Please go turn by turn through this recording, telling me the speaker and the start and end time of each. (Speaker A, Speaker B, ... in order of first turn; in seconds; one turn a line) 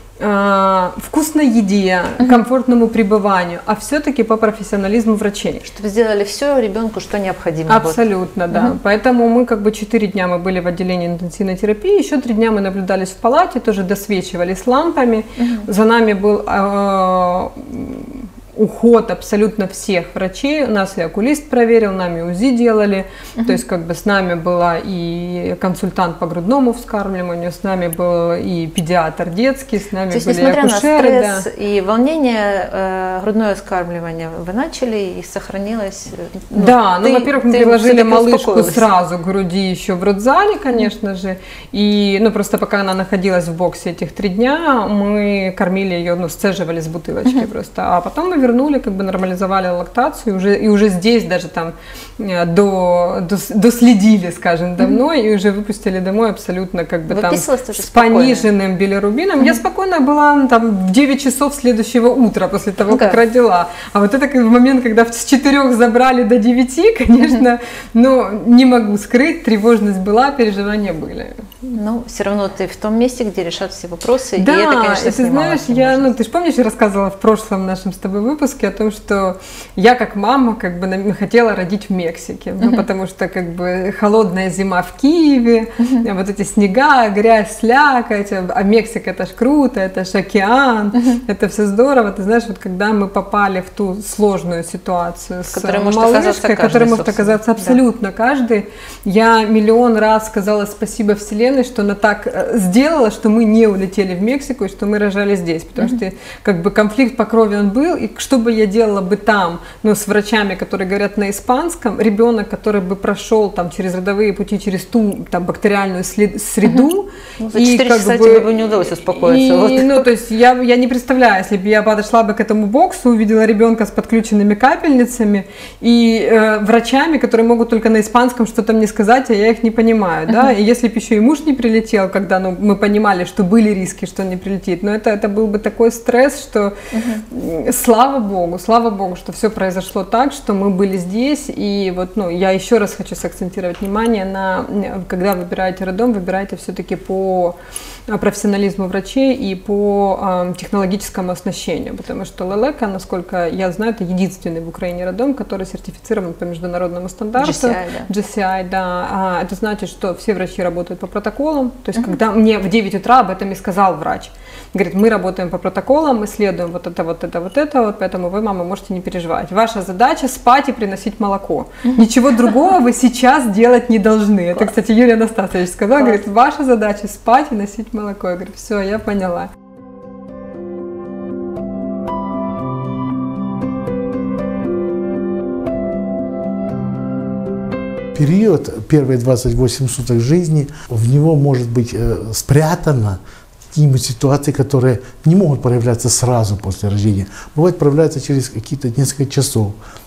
Speaker A: 0.2-5.6
Speaker B: 5.7-8.8
Speaker A: 7.7-31.5
Speaker B: 15.4-15.7
Speaker B: 30.1-38.9
Speaker A: 36.5-71.3
Speaker B: 57.1-58.5
Speaker B: 62.9-63.2
Speaker B: 71.7-76.1
Speaker A: 74.4-118.5
Speaker B: 95.5-97.8
Speaker B: 117.4-120.1
Speaker A: 119.1-136.7
Speaker B: 136.9-137.2
Speaker A: 137.3-147.6
Speaker A: 148.1-179.5
Speaker B: 157.4-158.1
Speaker B: 176.0-176.2
Speaker C: 188.1-193.2
Speaker C: 193.7-199.8